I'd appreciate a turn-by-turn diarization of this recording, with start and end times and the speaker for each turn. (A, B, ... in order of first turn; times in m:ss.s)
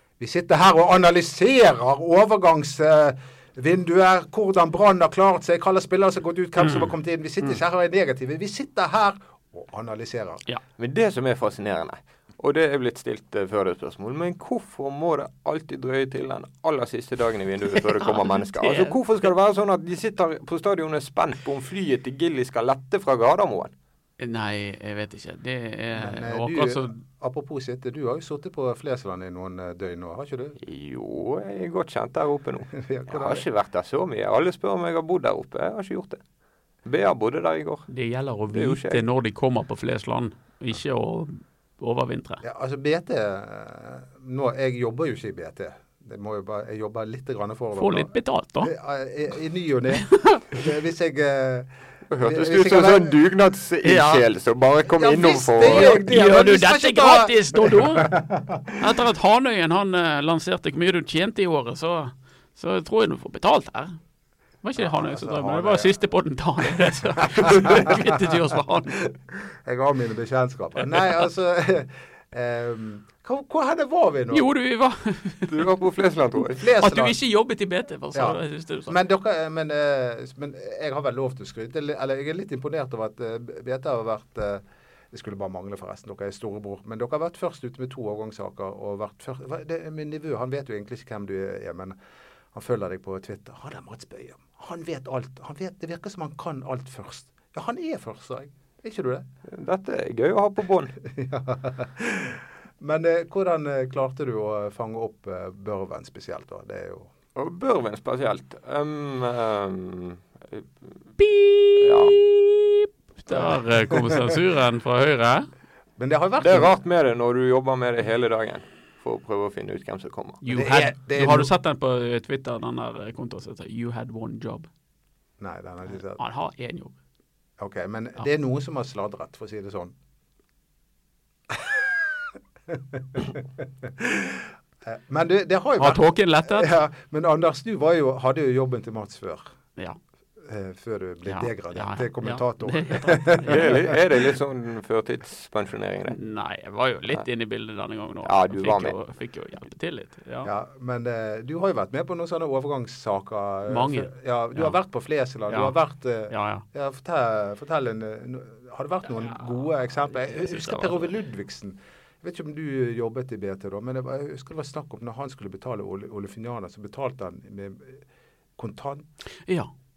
0:00.2-0:10.4 A
0:06.6-0:07.6 B
0:10.8-0:23.7 C
0:17.7-0:19.0 B
0:24.2-0:27.0 B
0:25.9-0:30.6 A
0:30.6-0:36.2 C
0:32.7-0:33.4 A
0:36.8-0:37.9 C
0:37.9-0:42.4 B
0:38.5-0:39.0 C
0:42.4-0:48.1 A
0:47.8-0:48.7 B
0:48.6-0:51.7 A
0:49.9-0:50.6 B
0:52.1-0:56.0 C
0:52.2-0:53.2 A
0:53.8-0:54.3 B
0:54.9-0:58.9 A
0:55.6-0:58.2 B
0:58.8-1:04.0 B
1:04.6-1:09.1 B
1:04.8-1:05.9 A
1:06.7-1:08.4 A
1:09.5-1:14.5 A
1:14.3-1:15.7 B
1:15.5-1:16.6 C
1:16.6-1:17.2 A
1:16.6-1:19.0 B
1:18.1-1:32.0 A
1:32.5-1:39.2 A
1:39.5-1:41.0 C
1:41.0-1:47.1 A
1:47.4-1:50.7 C
1:51.2-1:55.5 B
1:51.8-1:52.2 C
1:53.3-1:54.4 A
1:56.0-1:56.7 A
1:56.4-2:00.4 C
2:00.4-2:04.7 B
2:00.5-2:01.5 A
2:05.4-2:06.2 A
2:06.1-2:06.9 B
2:07.6-2:10.0 A
2:11.5-2:19.6 A
2:15.8-2:16.7 B
2:20.4-2:23.9 A
2:21.3-2:24.0 B
2:23.5-2:26.2 C
2:26.1-2:30.5 B
2:28.2-2:29.0 C
2:30.4-2:48.0 A
2:33.7-2:34.8 B
2:35.5-2:35.8 B
2:36.3-2:36.6 B
2:40.1-2:41.1 B
2:48.6-2:49.1 A
2:49.5-2:49.7 B